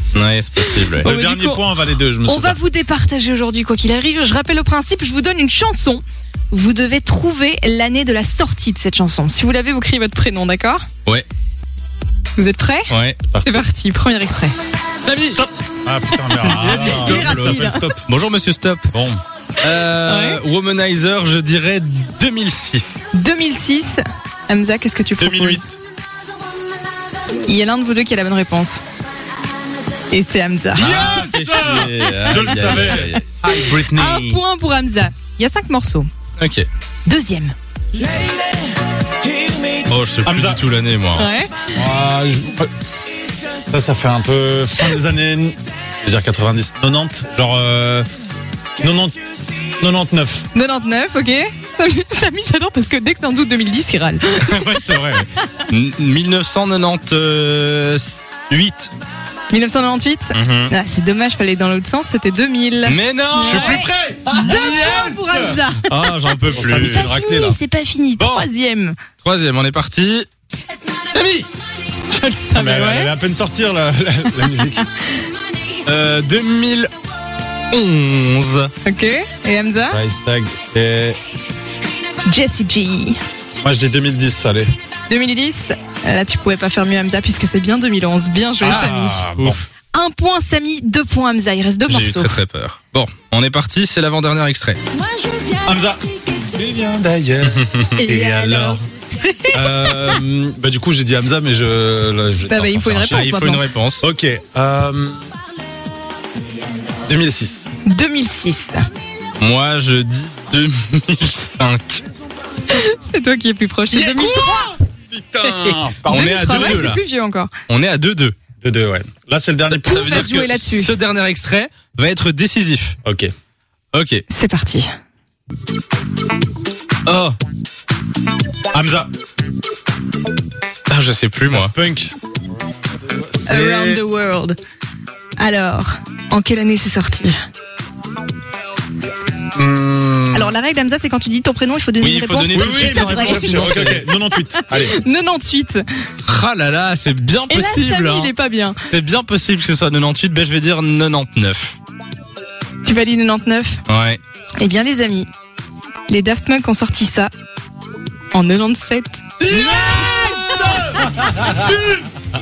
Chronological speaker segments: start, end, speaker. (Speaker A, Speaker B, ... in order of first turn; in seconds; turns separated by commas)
Speaker A: 0.1-1.1, Speaker B: 0.8-2.6, Speaker C: 1.1-1.6, Speaker C: 2.3-10.8, Speaker C: 12.4-12.9, Speaker A: 12.9-13.2, Speaker B: 13.3-13.6, Speaker C: 13.4-14.5, Speaker A: 15.0-15.4, Speaker B: 15.3-18.0, Speaker C: 16.4-17.9, Speaker A: 16.4-18.9, Speaker B: 18.9-19.2, Speaker A: 19.6-23.0, Speaker C: 20.1-20.4, Speaker C: 23.1-25.6, Speaker B: 25.2-25.8, Speaker C: 27.4-28.8, Speaker C: 30.1-30.9, Speaker A: 30.8-33.2, Speaker B: 30.8-34.4, Speaker C: 32.3-32.7, Speaker C: 33.8-36.1, Speaker A: 36.4-36.7, Speaker C: 37.1-37.5, Speaker A: 39.9-41.3, Speaker B: 40.2-40.6, Speaker C: 41.2-41.5, Speaker B: 41.7-42.7, Speaker B: 43.7-48.1, Speaker B: 48.8-50.5, Speaker C: 50.5-55.0, Speaker A: 54.4-58.9, Speaker C: 59.5-65.9, Speaker A: 60.3-60.7, Speaker A: 62.9-63.9, Speaker B: 63.4-65.6, Speaker A: 65.8-67.1, Speaker C: 66.5-69.0, Speaker B: 66.5-67.6, Speaker A: 68.2-68.5, Speaker A: 69.2-70.3, Speaker A: 71.1-71.5, Speaker C: 72.1-73.1, Speaker B: 72.5-74.8, Speaker A: 75.8-76.9, Speaker A: 77.7-78.7, Speaker C: 78.8-80.0, Speaker B: 79.9-81.2, Speaker C: 82.3-83.2, Speaker B: 83.6-84.7, Speaker C: 85.1-89.3, Speaker B: 88.6-89.6, Speaker A: 89.4-89.6, Speaker C: 89.9-92.4, Speaker A: 91.9-94.8, Speaker C: 95.2-95.5, Speaker B: 95.6-98.8, Speaker A: 97.5-98.0, Speaker C: 98.0-100.2, Speaker B: 99.5-103.3, Speaker C: 102.5-103.6, Speaker A: 103.1-104.0, Speaker B: 104.0-105.2, Speaker B: 107.0-107.7, Speaker C: 107.9-108.8, Speaker A: 109.4-112.0, Speaker C: 112.7-114.8, Speaker B: 113.9-116.9, Speaker C: 115.4-117.5, Speaker A: 116.1-117.0, Speaker A: 117.7-118.3, Speaker B: 118.6-120.2, Speaker C: 119.7-121.0, Speaker A: 119.8-123.0, Speaker B: 123.0-123.3, Speaker A: 123.9-124.2, Speaker C: 124.3-124.9, Speaker A: 127.1-127.4, Speaker B: 128.7-129.1, Speaker A: 130.9-131.7, Speaker B: 131.5-132.1, Speaker B: 133.1-134.0, Speaker C: 133.5-134.6, Speaker C: 135.4-137.4, Speaker B: 139.6-140.5, Speaker C: 140.3-145.8, Speaker A: 142.0-144.1, Speaker B: 142.5-145.0, Speaker A: 146.2-148.3, Speaker C: 147.5-148.8, Speaker A: 148.9-151.8, Speaker C: 152.8-153.8, Speaker A: 153.9-154.2, Speaker C: 154.6-155.3, Speaker C: 156.1-157.3, Speaker C: 158.3-159.3, Speaker A: 159.4-162.0, Speaker B: 159.5-161.8, Speaker C: 159.9-160.8